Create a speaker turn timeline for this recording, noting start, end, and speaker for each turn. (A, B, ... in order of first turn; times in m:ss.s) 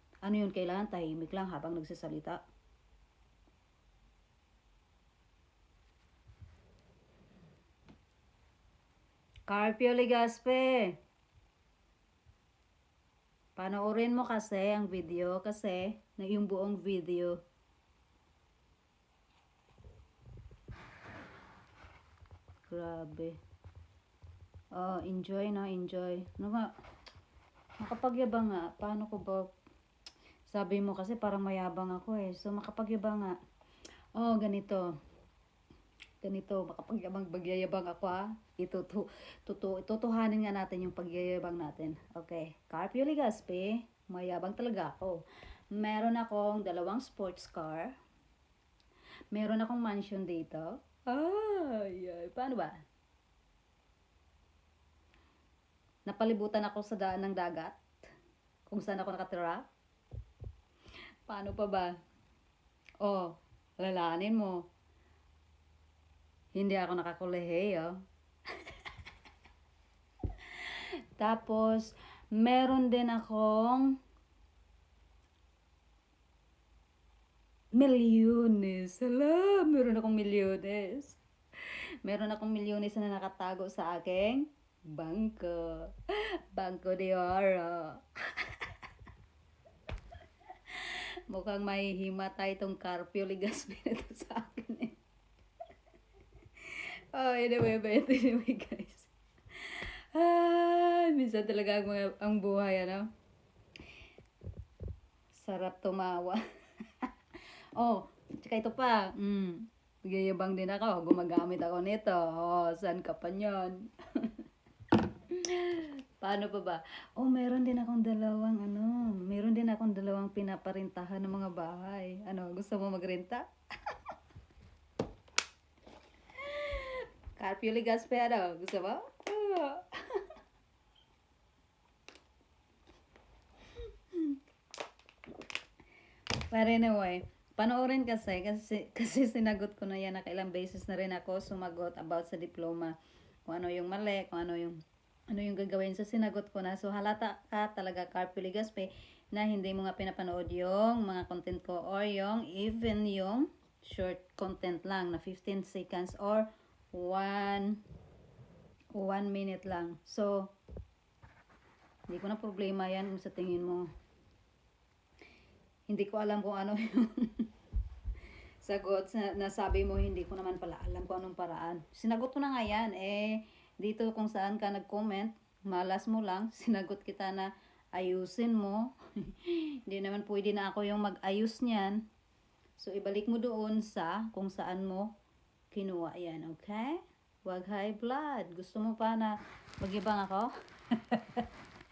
0:00.2-0:02.4 A
0:09.5-0:10.9 A
0:13.6-0:17.4 A
0:22.7-0:23.4 A
0:24.7-0:26.7 A
0:27.8-0:29.5 A
0:30.5-0:33.4 A
0:34.2-0:34.9 A
0:36.2-0:45.2 A
0:45.7-0:47.9 A
0:49.3-0:52.8 A
0:56.1-0:57.8 A
0:58.7-0:59.6 A
1:01.3-1:01.9 A
1:03.0-1:04.6 A
1:06.5-1:07.9 A
1:10.6-1:13.9 A
1:17.8-1:21.2 A
1:22.0-1:28.7 A
1:30.7-1:34.9 A
1:36.6-1:43.1 A
1:45.3-1:46.4 A
1:47.8-1:54.4 A
1:55.3-2:03.4 A
2:06.4-2:10.3 A
2:16.5-2:22.9 A
2:23.5-2:37.8 A
2:39.0-2:40.5 A
2:42.1-2:43.9 A
2:45.9-2:47.5 A
2:48.6-3:02.0 A
3:02.8-3:05.1 A
3:05.7-3:11.5 A